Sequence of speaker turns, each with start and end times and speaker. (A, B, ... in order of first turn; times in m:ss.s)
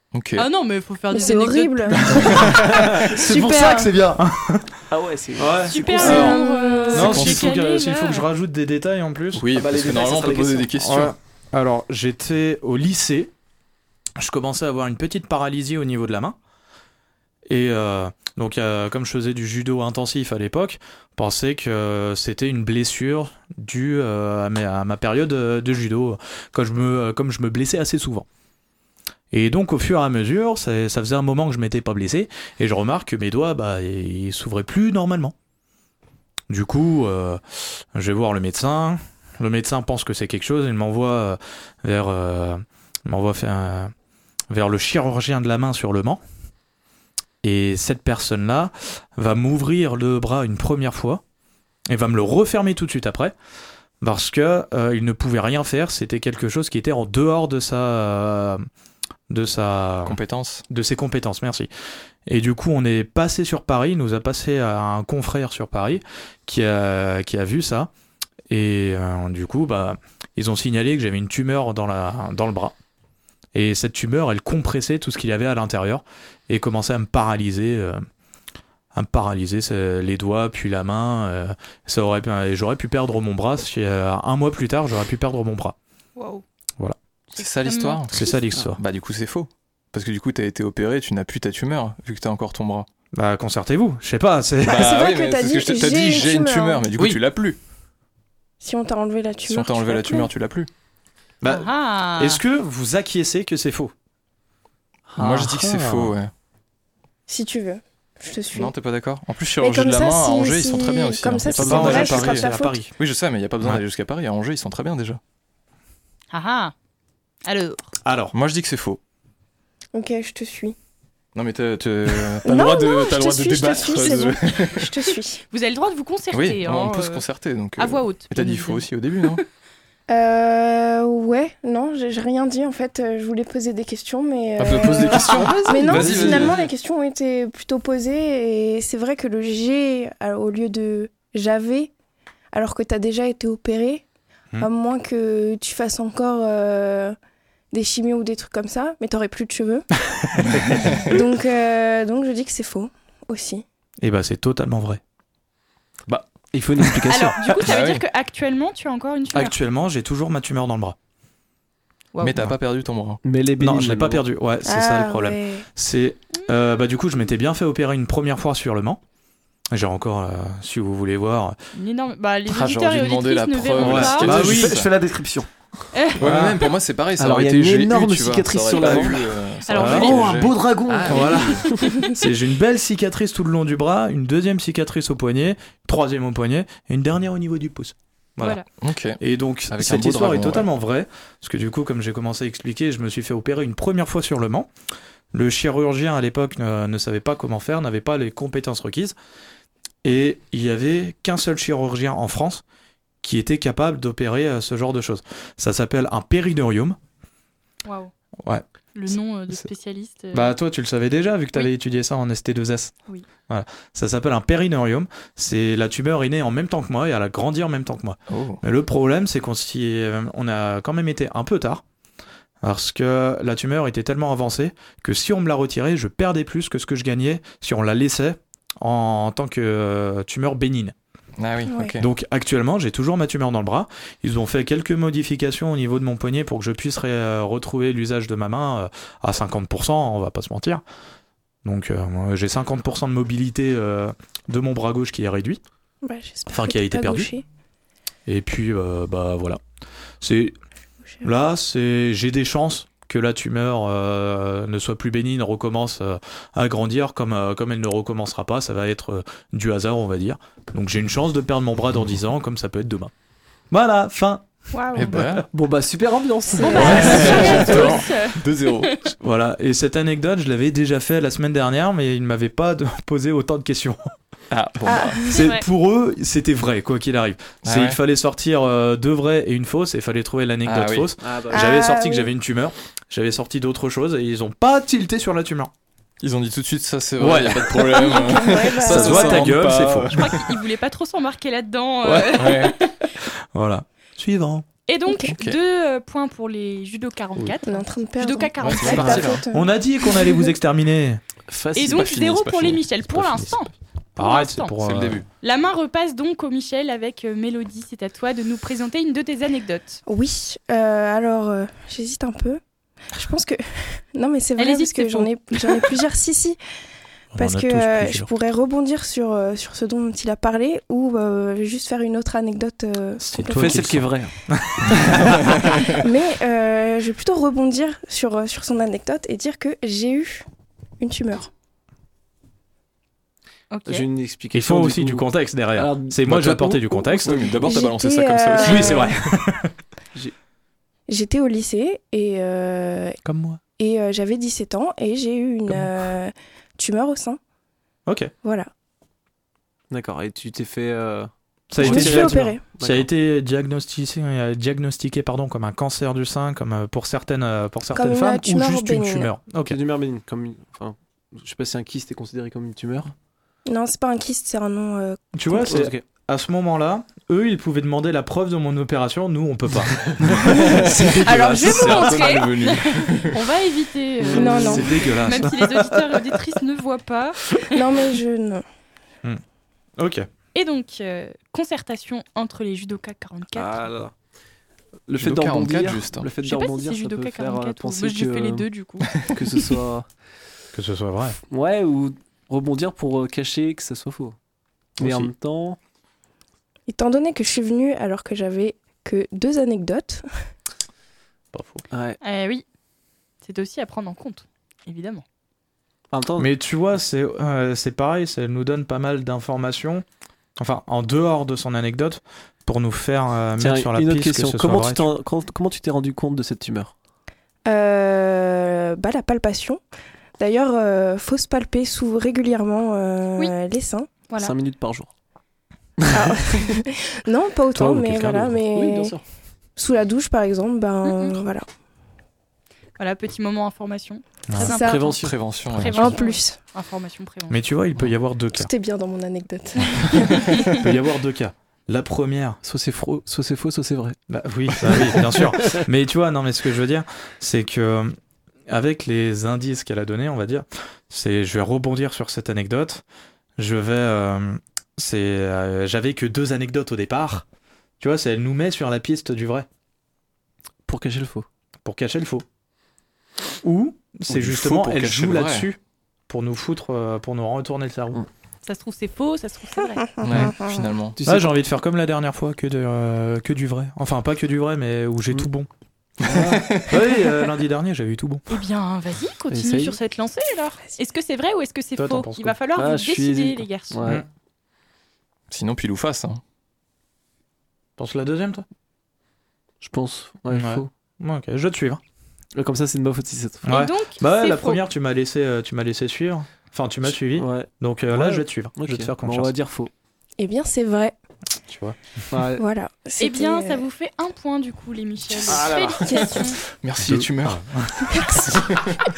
0:00.1-0:00.5 A
0:00.4-0:02.5 B
0:01.1-0:03.9 C
0:02.2-0:04.7 D
0:02.6-0:03.0 E
0:04.9-0:06.3 E
0:05.4-0:06.4 D
0:05.6-0:08.2 B
0:05.9-0:07.2 C
0:06.9-0:09.5 D
0:07.0-0:07.5 A
0:09.4-0:11.1 A
0:09.5-0:10.8 E
0:10.8-0:13.3 D
0:14.2-0:16.4 D
0:17.5-0:28.3 D
0:29.3-0:35.3 D
0:36.5-0:37.4 D
0:38.0-0:43.9 D
0:44.5-0:46.2 D
0:47.4-0:51.2 D
0:51.9-0:53.3 D
0:54.0-0:58.7 D
0:59.3-1:01.7 D
1:00.0-1:00.6 A
1:02.3-1:07.9 D
1:08.5-1:12.8 D
1:13.5-1:18.0 D
1:18.9-1:25.8 D
1:26.2-1:26.4 B
1:27.4-1:28.4 B
1:27.4-1:28.2 A
1:28.1-1:28.8 D
1:28.7-1:32.9 A
1:33.2-1:35.0 D
1:34.6-1:36.8 C
1:34.6-1:37.6 A
1:38.6-1:40.3 C
1:39.5-1:40.7 A
1:41.4-1:43.9 D
1:41.4-1:42.4 B
1:45.2-1:46.0 E
1:45.2-1:46.3 A
1:47.3-1:48.7 C
1:48.5-1:55.2 A
1:49.6-1:52.8 C
1:51.5-1:52.9 D
1:56.3-1:56.7 B
1:57.5-1:57.9 B
1:58.0-1:58.3 D
1:58.3-1:59.0 A
1:59.9-2:00.8 C
2:01.4-2:04.9 A
2:02.4-2:05.4 C
2:05.5-2:07.2 B
2:06.3-2:09.4 A
2:07.8-2:08.9 B
2:10.1-2:21.9 C
2:14.6-2:16.6 A
2:16.0-2:16.3 D
2:22.5-2:24.0 C
2:24.6-2:27.2 C
2:27.7-2:29.9 C
2:30.5-2:31.1 A
2:30.6-2:30.8 D
2:31.1-2:33.6 C
2:34.0-2:35.0 D
2:36.5-2:37.4 E
2:37.1-2:39.6 B
2:37.6-2:38.0 A
2:39.3-2:41.0 D
2:42.2-2:43.2 A
2:43.2-2:44.2 E
2:43.6-2:49.0 D
2:44.6-2:45.7 C
2:49.7-2:51.6 D
2:51.7-2:54.4 B
2:52.5-2:54.9 A
2:53.8-2:54.8 D
2:54.3-2:55.5 E
2:55.9-2:56.2 B
2:56.2-3:01.7 A
2:56.2-2:56.7 D
2:57.2-2:59.3 E
2:58.7-2:59.1 D
2:59.7-3:00.4 B
2:59.8-3:00.3 D
3:00.0-3:01.6 E
3:01.0-3:08.6 D
3:01.1-3:02.2 B
3:08.4-3:08.7 B
3:08.8-3:09.2 A
3:09.2-3:14.7 D
3:09.7-3:10.7 A
3:15.3-3:19.2 D
3:20.0-3:22.6 D
3:23.2-3:27.0 D
3:27.8-3:28.1 B
3:29.0-3:30.6 B
3:30.3-3:32.9 D
3:33.5-3:41.8 D
3:38.3-3:38.6 A
3:42.6-3:50.9 D
3:51.4-3:52.1 A
3:51.7-3:51.9 C
3:52.0-4:00.8 D
4:01.6-4:05.6 D
4:06.0-4:07.4 C
4:06.5-4:07.3 D
4:08.3-4:09.6 D
4:10.2-4:10.6 D
4:11.2-4:23.1 D
4:23.7-4:24.4 D
4:24.7-4:25.2 B
4:24.9-4:25.5 A
4:25.4-4:27.8 E
4:26.6-4:29.0 B
4:26.6-4:27.4 C
4:26.8-4:28.9 A
4:26.8-4:27.8 D
4:29.2-4:34.0 D
4:34.5-4:35.2 A
4:34.8-4:35.3 C
4:35.3-4:35.6 B
4:35.3-4:45.7 D
4:37.6-4:38.0 A
4:40.6-4:41.1 A
4:41.2-4:41.6 E
4:41.5-4:42.3 C
4:46.2-4:50.5 A
4:47.2-4:50.3 D
4:47.9-4:49.5 C
4:50.1-4:52.9 B
4:52.0-4:52.6 D
4:52.3-4:52.8 A
4:53.6-4:54.7 D
4:54.9-4:59.3 B
4:55.1-4:55.4 C
4:55.3-4:55.6 A
4:57.6-5:00.5 C
4:58.6-4:59.4 A
4:58.8-5:01.2 D
5:01.5-5:02.1 E
5:01.8-5:04.7 B
5:01.8-5:02.8 A
5:03.1-5:03.6 D
5:04.2-5:05.2 D
5:04.8-5:05.3 A
5:05.4-5:10.0 B
5:10.1-5:12.6 C
5:13.1-5:16.6 C
5:14.6-5:15.9 B
5:17.3-5:18.3 D
5:17.4-5:23.2 C
5:23.2-5:25.8 D
5:23.4-5:24.3 E
5:25.8-5:30.5 C
5:31.0-5:31.5 C
5:33.7-5:34.0 B
5:33.9-5:36.3 E
5:34.5-5:37.4 D
5:36.3-5:39.1 A
5:37.0-5:37.7 E
5:37.6-5:39.2 C
5:38.6-5:39.7 D
5:41.1-5:43.2 C
5:43.2-5:43.6 D
5:43.8-5:47.4 C
5:48.4-5:48.7 C
5:49.9-5:53.1 E
5:51.7-5:59.8 D
5:51.8-5:52.6 C
5:57.9-5:59.3 C
5:59.7-6:03.1 E
6:03.7-6:05.7 C
6:05.4-6:12.0 D
6:05.5-6:06.0 E
6:10.3-6:13.4 A
6:10.5-6:12.5 C
6:11.6-6:17.8 B
6:14.2-6:14.8 E
6:14.3-6:15.0 C
6:14.5-6:16.2 D
6:17.7-6:18.6 C
6:20.0-6:20.3 D
6:20.6-6:23.9 B
6:23.6-6:24.1 E
6:25.1-6:28.7 E
6:25.2-6:26.3 A
6:26.4-6:29.2 B
6:29.3-6:30.1 E
6:30.7-6:31.4 D
6:31.5-6:34.4 E
6:35.0-6:35.8 E
6:35.0-6:35.3 D
6:36.9-6:40.3 C
6:41.5-6:41.8 D
6:41.9-6:42.2 E
6:42.2-6:42.6 B
6:43.4-6:45.2 B
6:46.1-6:46.5 E
6:46.4-6:50.0 D
6:50.6-6:55.1 D
6:53.6-6:56.9 E
6:57.7-6:59.8 C
7:00.4-7:04.1 C
7:04.4-7:05.1 E
7:06.0-7:06.3 E
7:06.1-7:09.2 C
7:07.8-7:08.6 D
7:08.6-7:09.2 E
7:09.8-7:11.7 C
7:11.0-7:11.4 B
7:13.0-7:17.6 B
7:14.6-7:15.0 C
7:14.6-7:15.3 E
7:15.1-7:16.2 A
7:15.9-7:16.6 C
7:17.5-7:18.7 D
7:18.5-7:20.6 C
7:20.6-7:22.6 D
7:22.6-7:24.2 E
7:24.3-7:28.2 D
7:24.8-7:25.8 E
7:28.7-7:33.0 D
7:33.6-7:37.4 D
7:38.0-7:39.7 D
7:40.9-7:41.5 E
7:41.8-7:42.4 D
7:43.6-7:45.8 D
7:44.3-7:45.7 A
7:46.3-7:48.2 D
7:48.6-7:50.1 B
7:50.2-7:51.2 A
7:51.2-7:51.6 E
7:51.2-7:55.7 D
7:56.2-7:56.9 E
7:56.2-7:57.0 A
7:56.9-7:58.4 D
7:58.5-8:04.0 B
7:59.5-8:00.0 E
8:02.0-8:02.6 D
8:02.8-8:04.2 E
8:05.5-8:06.4 A
8:08.0-8:08.6 D
8:09.8-8:10.9 E
8:10.5-8:12.0 D
8:12.6-8:13.7 E
8:13.7-8:14.8 B
8:13.7-8:19.5 D
8:17.0-8:19.9 E
8:20.4-8:21.2 C
8:21.7-8:22.0 D
8:22.3-8:22.6 E
8:22.6-8:23.8 C
8:23.2-8:26.6 B
8:25.5-8:26.2 E
8:25.5-8:27.6 A
8:27.0-8:28.3 D
8:28.1-8:28.6 C
8:28.6-8:29.0 A